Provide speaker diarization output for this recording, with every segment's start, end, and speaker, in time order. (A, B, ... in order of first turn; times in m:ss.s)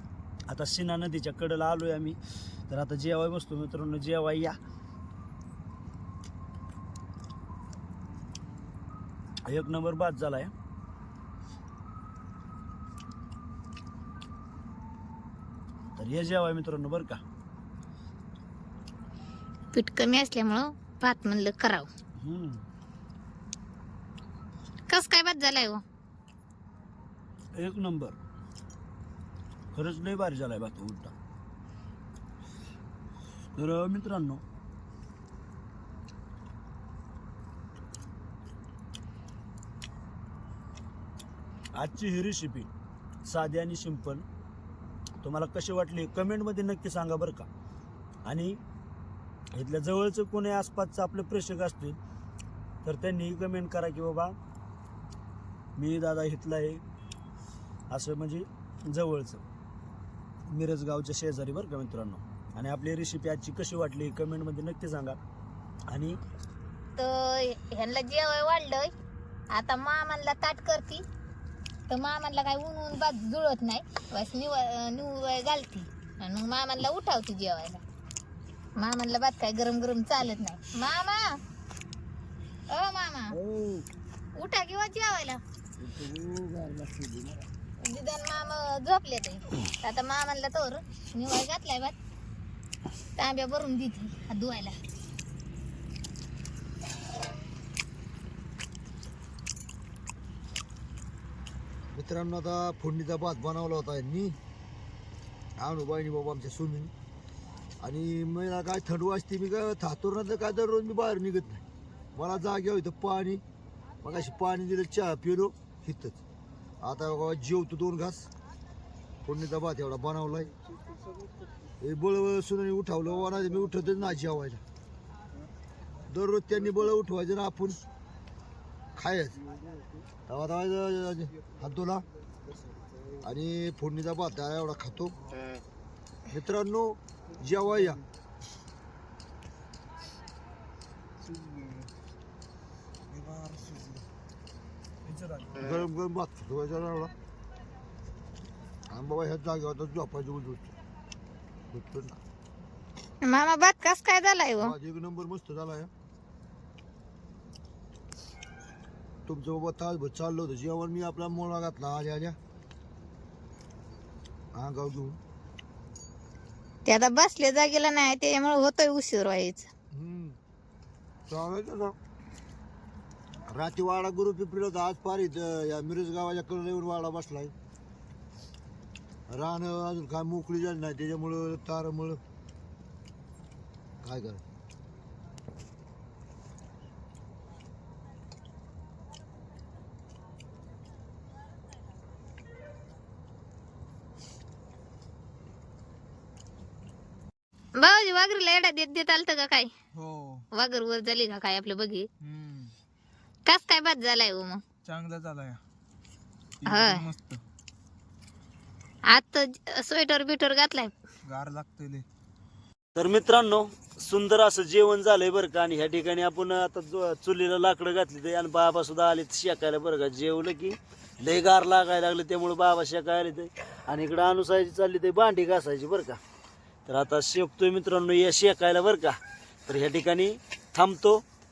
0:00.5-0:02.2 A
0:02.7-0:04.6 A
0:09.4-0:10.5 A
0:16.0-0:17.2 A
0:19.7-0:21.9 B
0:22.2-0:22.6 A
0:24.9-0:25.8 B
0:27.6-0:28.2 A
0:29.7-0:31.1 A
0:33.6-0:34.4 A
0:41.8-0:42.7 A
0:43.3-0:44.2 A
0:45.2-0:47.5 A
0:48.3-0:48.6 A
0:49.5-0:52.0 A
0:52.8-0:54.4 A
0:55.8-0:56.8 A
0:57.9-0:59.4 A
1:00.5-1:05.2 A
1:05.9-1:06.2 A
1:07.0-1:08.9 B
1:09.5-1:11.0 B
1:11.9-1:17.8 B
1:18.8-1:21.4 B
1:22.7-1:23.4 B
1:23.4-1:23.8 C
1:24.4-1:25.4 B
1:25.8-1:27.5 C
1:27.8-1:32.0 B
1:33.2-1:34.8 B
1:41.9-1:44.4 C
1:45.6-1:46.9 C
1:47.8-1:51.6 C
1:52.2-1:53.4 C
1:54.0-1:56.2 C
1:56.8-1:58.3 C
1:59.2-2:00.5 C
2:01.8-2:04.6 C
2:06.1-2:07.8 C
2:09.0-2:09.4 C
2:10.3-2:12.0 C
2:13.2-2:15.2 C
2:16.3-2:18.0 C
2:21.2-2:21.9 D
2:23.1-2:24.1 D
2:25.0-2:25.7 D
2:25.6-2:27.1 C
2:28.9-2:30.7 C
2:31.7-2:32.2 C
2:33.2-2:34.8 B
2:34.6-2:35.9 C
2:39.3-2:42.4 C
2:44.5-2:45.2 C
2:46.9-2:49.7 B
2:49.9-2:50.4 C
2:51.3-2:52.0 C
2:53.5-2:57.5 C
2:59.3-3:02.2 C
3:04.0-3:04.4 C
3:17.8-3:19.7 B
3:19.9-3:20.4 D
3:20.5-3:22.1 B
3:22.2-3:22.7 D
3:23.5-3:24.6 B
3:24.8-3:25.6 D
3:26.6-3:27.4 D
3:26.7-3:27.1 B
3:29.1-3:30.9 B
3:31.2-3:32.0 D
3:33.0-3:46.2 A
3:46.9-3:51.2 A